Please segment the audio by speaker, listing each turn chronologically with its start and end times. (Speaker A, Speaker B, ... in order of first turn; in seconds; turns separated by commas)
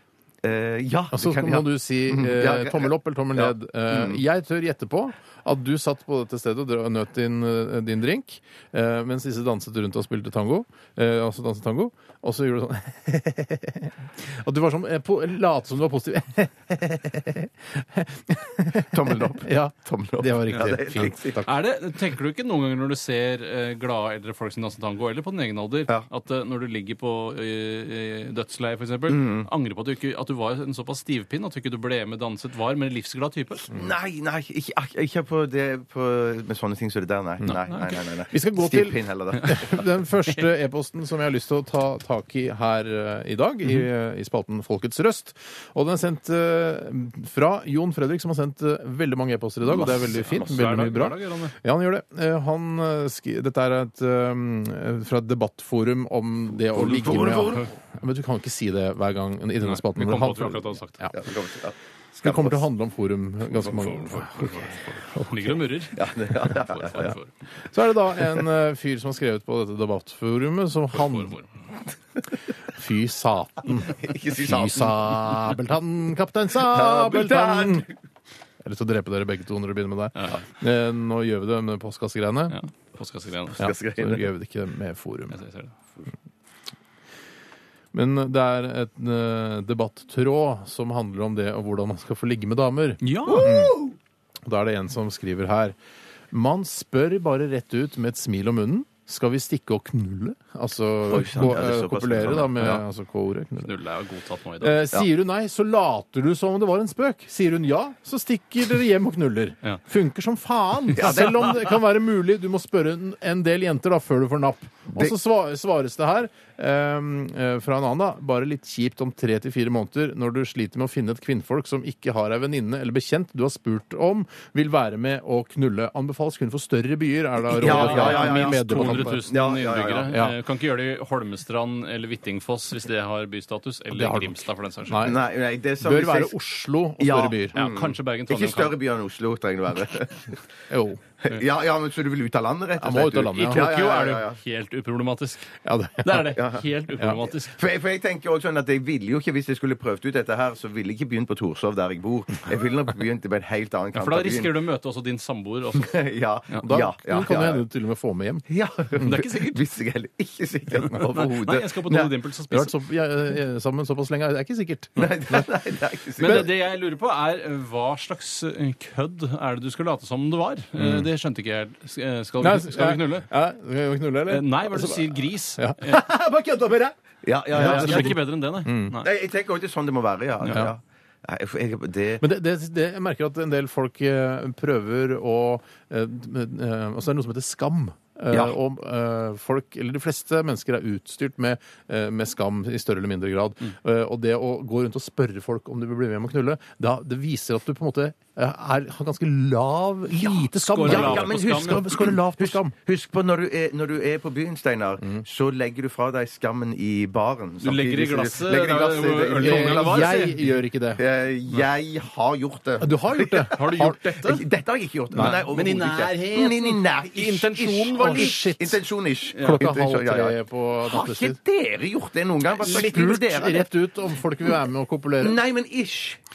Speaker A: 0.4-4.2, Speaker B: 1.1-21.5, Speaker A: 18.9-21.4, Speaker C: 21.4-33.7, Speaker A: 29.1-29.5, Speaker A: 33.7-39.8, Speaker C: 37.5-37.9, Speaker B: 38.3-61.1, Speaker C: 50.3-51.5, Speaker A: 56.7-57.7, Speaker C: 57.2-57.6, Speaker C: 59.6-61.0, Speaker A: 61.1-62.6, Speaker B: 62.2-64.6, Speaker A: 63.6-63.9, Speaker C: 64.1-67.3, Speaker A: 66.0-67.1, Speaker B: 67.7-71.3, Speaker C: 70.9-71.5, Speaker B: 72.7-77.9, Speaker A: 73.9-75.4, Speaker A: 76.6-77.9, Speaker B: 78.6-82.6, Speaker C: 80.2-80.4, Speaker C: 82.5-83.7, Speaker A: 83.6-84.3, Speaker B: 83.6-85.4, Speaker C: 85.3-85.8, Speaker B: 87.9-93.8, Speaker C: 93.0-93.5, Speaker A: 93.3-94.0, Speaker B: 94.5-95.8, Speaker B: 96.3-103.7, Speaker A: 101.1-102.8, Speaker C: 103.6-104.8, Speaker B: 104.6-129.2, Speaker A: 111.0-111.7, Speaker A: 127.5-130.1, Speaker C: 127.6-135.1, Speaker B: 130.1-130.3, Speaker B: 133.9-135.2, Speaker A: 135.0-136.3, Speaker B: 135.8-137.6, Speaker A: 137.0-140.4, Speaker C: 137.5-138.8, Speaker B: 140.7-141.0, Speaker A: 141.2-144.4, Speaker B: 142.8-143.7, Speaker C: 143.3-145.5, Speaker B: 145.6-146.4, Speaker C: 146.0-147.6, Speaker A: 146.3-146.7, Speaker A: 147.3-154.5, Speaker C: 153.9-156.0, Speaker A: 155.8-157.6, Speaker B: 156.7-158.4, Speaker A: 158.5-162.1, Speaker C: 159.0-159.6, Speaker C: 160.9-162.7, Speaker B: 162.5-165.5, Speaker A: 165.0-166.5, Speaker B: 166.2-166.5, Speaker C: 166.2-173.3, Speaker B: 170.8-171.1, Speaker B: 172.4-176.9, Speaker C: 174.3-176.0, Speaker A: 177.2-178.2, Speaker B: 177.5-178.9, Speaker C: 177.6-179.1, Speaker A: 179.0-182.2, Speaker B: 182.2-202.7, Speaker C: 200.6-201.8, Speaker A: 200.9-210.3, Speaker C: 207.6-210.5, Speaker B: 209.4-211.0, Speaker A: 211.0-223.7, Speaker B: 212.8-214.0, Speaker C: 213.6-214.4, Speaker B: 215.1-215.4, Speaker C: 215.2-218.4, Speaker B: 217.9-218.8, Speaker C: 219.3-219.7, Speaker B: 219.4-221.4, Speaker B: 222.6-225.4, Speaker A: 225.2-226.2